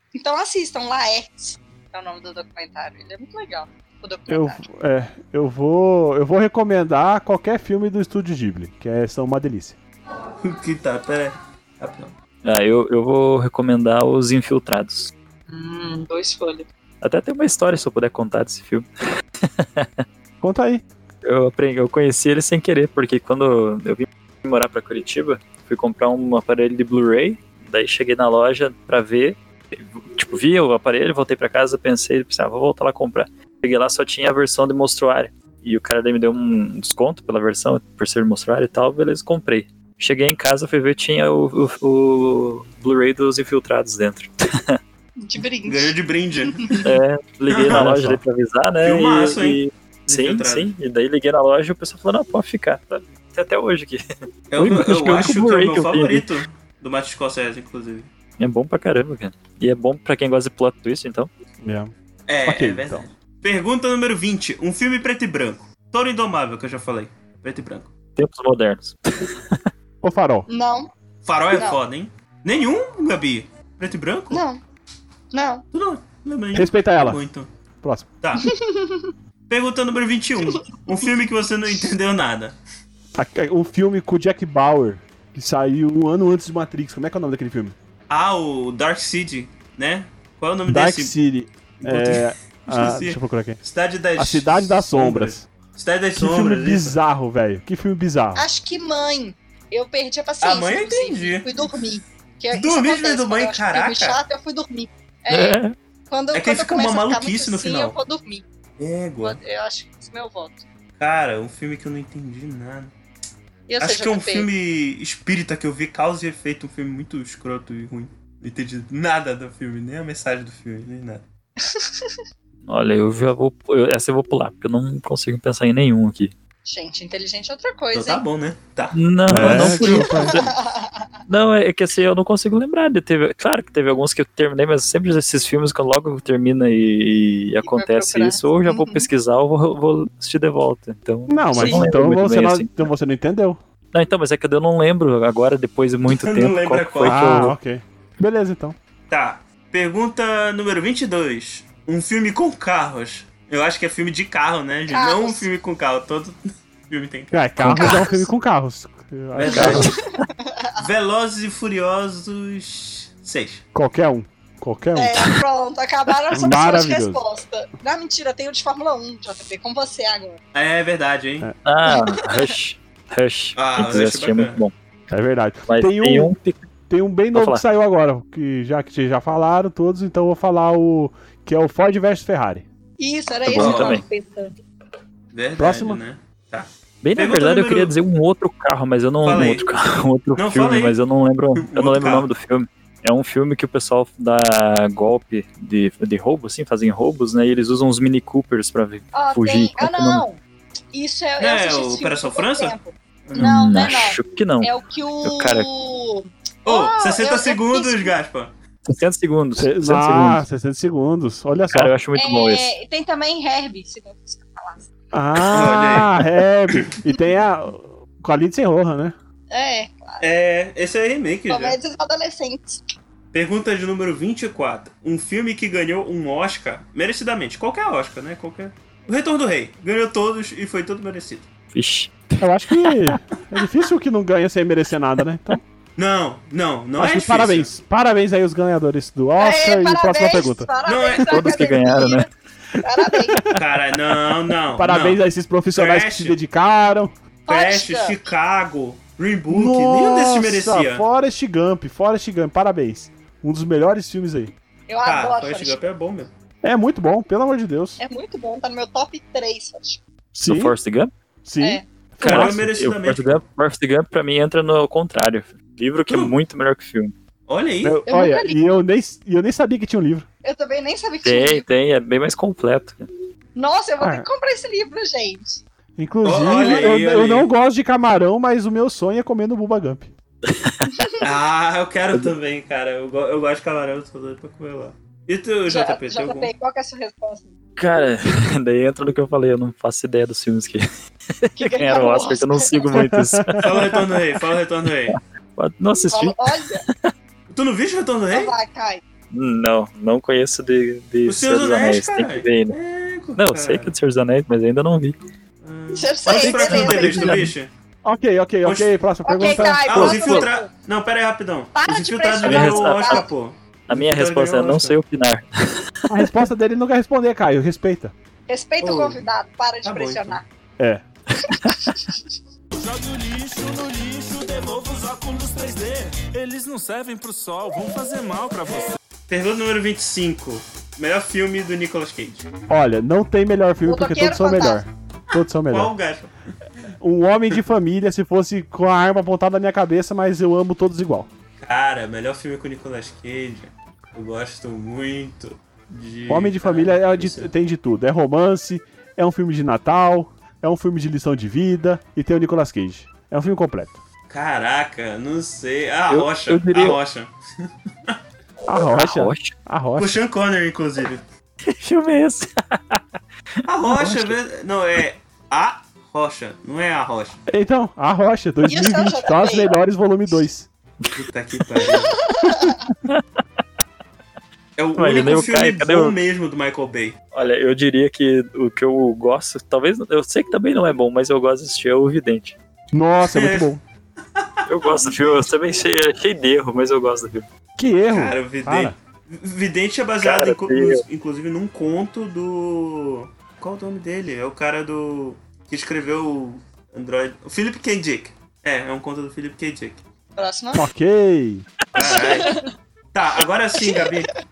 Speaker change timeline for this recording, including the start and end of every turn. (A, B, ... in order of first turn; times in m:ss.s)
0:00.2-0:04.6 A
0:04.3-0:09.8 B
0:10.4-0:12.1 C
0:12.4-0:15.1 D
0:15.5-0:16.7 A
0:17.0-0:18.9 D
0:19.4-0:20.0 D
0:20.4-0:20.8 B
0:21.2-0:44.8 D
0:45.2-0:45.9 A
0:45.6-0:46.8 C
0:46.5-0:46.9 A
0:46.8-0:54.0 D
0:47.5-0:47.9 C
0:47.7-0:48.2 B
0:48.8-0:50.7 C
0:54.5-0:58.1 C
0:54.6-0:56.3 D
0:58.4-1:01.3 D
1:01.6-1:01.9 B
1:02.3-1:07.9 C
1:02.4-1:03.0 B
1:08.2-1:09.6 D
1:10.0-1:10.5 B
1:10.5-1:10.9 A
1:11.2-1:14.4 C
1:11.5-1:11.8 A
1:14.3-1:14.6 A
1:15.3-1:15.6 A
1:15.7-1:17.5 C
1:16.5-1:17.2 B
1:17.8-1:18.1 B
1:18.2-1:18.5 C
1:18.4-1:19.1 A
1:19.5-1:22.6 C
1:23.2-1:27.8 B
1:28.1-1:31.1 C
1:30.7-1:33.6 B
1:31.8-1:37.0 C
1:34.2-1:35.5 B
1:36.2-1:38.4 B
1:38.4-1:48.4 A
1:40.4-1:41.7 C
1:42.5-1:44.2 C
1:45.3-1:45.8 D
1:46.3-1:48.0 C
1:48.8-1:49.4 C
1:49.2-1:50.6 A
1:51.0-1:52.9 C
1:53.7-1:54.5 A
1:53.8-2:01.2 C
2:01.6-2:02.2 A
2:02.6-2:06.3 D
2:06.6-2:08.2 A
2:07.9-2:10.0 C
2:08.9-2:10.5 D
2:09.3-2:10.4 B
2:09.8-2:11.1 A
2:11.3-2:22.9 D
2:17.6-2:19.1 A
2:21.3-2:23.6 B
2:21.6-2:21.9 A
2:23.9-2:27.6 D
2:26.1-2:27.2 C
2:27.0-2:28.8 B
2:29.1-2:37.4 C
2:34.9-2:35.5 A
2:37.3-2:40.0 B
2:37.6-2:38.0 D
2:37.7-2:38.3 A
2:39.3-2:39.9 C
2:39.5-2:40.0 D
2:39.5-2:40.8 A
2:40.8-2:43.6 C
2:43.7-2:45.3 B
2:45.0-2:50.4 A
2:46.3-2:47.2 B
2:50.5-2:51.5 C
2:51.6-2:54.7 D
2:51.9-2:52.5 A
2:53.6-2:54.6 C
2:55.1-2:56.3 B
2:55.7-2:56.6 D
2:56.9-3:02.6 B
2:57.3-2:57.6 D
3:03.0-3:04.6 A
3:03.5-3:04.0 D
3:03.5-3:04.0 C
3:05.3-3:07.9 C
3:05.6-3:06.0 B
3:07.0-3:20.2 D
3:09.2-3:09.7 C
3:10.4-3:11.0 C
3:11.6-3:12.3 C
3:19.1-3:20.4 A
3:20.9-3:28.1 A
3:21.4-3:22.8 C
3:23.3-3:23.7 C
3:23.4-3:25.7 D
3:26.7-3:28.5 C
3:28.9-3:30.4 D
3:29.6-3:32.0 B
3:31.7-3:32.7 D
3:32.2-3:34.9 A
3:35.1-3:39.2 B
3:35.5-3:36.2 C
3:39.5-3:40.2 A
3:40.2-3:41.8 C
3:41.5-3:42.8 A
3:43.3-3:51.5 C
3:51.7-3:53.2 D
3:52.4-3:55.6 B
3:56.0-3:57.7 C
3:57.0-4:00.7 B
3:59.4-4:02.3 A
4:00.8-4:01.5 C
4:01.3-4:02.3 D
4:02.8-4:03.4 A
4:03.1-4:03.6 B
4:03.5-4:05.2 C
4:04.7-4:07.1 B
4:05.7-4:06.4 C
4:07.5-4:11.0 C
4:07.5-4:08.2 A
4:09.5-4:14.5 B
4:14.9-4:15.8 A
4:15.0-4:16.3 C
4:16.6-4:18.0 B
4:18.0-4:20.0 A
4:20.3-4:20.8 B
4:20.4-4:21.1 D
4:21.4-4:22.7 B
4:22.2-4:23.4 C
4:22.2-4:27.1 D
4:26.1-4:26.4 C
4:27.5-4:28.0 C
4:27.8-4:30.3 B
4:28.1-4:28.6 A
4:30.4-4:31.6 A
4:31.2-4:33.1 D
4:33.6-4:35.6 A
4:34.0-4:34.3 B
4:36.0-4:40.1 B
4:36.2-4:37.5 C
4:40.4-4:41.0 D
4:41.2-4:46.5 C
4:45.7-4:47.5 A
4:47.8-4:50.9 D
4:51.4-4:54.4 D
4:51.6-4:53.0 A
4:52.9-4:53.7 B
4:53.6-4:55.2 C
4:55.1-4:57.1 D
4:56.1-4:56.8 A
4:57.5-4:58.5 C
4:58.3-4:59.0 A
4:59.3-5:02.8 D
5:01.3-5:03.9 C
5:03.4-5:05.2 D
5:05.6-5:07.7 C
5:05.9-5:07.4 A
5:06.3-5:07.6 D
5:06.4-5:07.0 B
5:08.0-5:10.4 B
5:08.6-5:15.0 C
5:09.2-5:10.7 A
5:10.0-5:10.4 D
5:11.8-5:13.3 A
5:12.4-5:13.3 D
5:13.9-5:16.3 D
5:16.1-5:18.1 B
5:18.5-5:20.4 A
5:18.8-5:19.2 C
5:19.8-5:20.4 C
5:20.8-5:21.0 B
5:21.4-5:22.2 A
5:22.8-5:29.0 E
5:29.3-5:32.5 C
5:32.7-5:35.9 B
5:33.8-5:34.8 A
5:35.7-5:36.3 C
5:37.0-5:41.3 B
5:41.6-5:47.5 C
5:46.3-5:54.0 B
5:54.3-5:57.3 C
5:56.1-5:57.0 D
5:58.7-6:00.2 B
5:58.7-5:59.6 D
6:00.0-6:01.2 C
6:01.6-6:03.0 D
6:03.7-6:07.4 C
6:03.8-6:04.4 D
6:07.5-6:10.7 B
6:08.6-6:09.8 A
6:11.2-6:12.2 C
6:12.0-6:12.8 A
6:14.8-6:17.2 C
6:15.0-6:16.2 D
6:17.3-6:22.6 D
6:22.9-6:23.8 B
6:23.2-6:23.7 C
6:24.4-6:25.4 C
6:24.7-6:27.5 D
6:27.8-6:29.0 B
6:28.1-6:40.0 C
6:30.2-6:31.0 D
6:40.4-6:40.9 A
6:40.7-6:41.7 B
6:41.9-6:42.6 C
6:42.0-6:42.7 A
6:43.1-6:44.3 C
6:43.8-6:44.1 A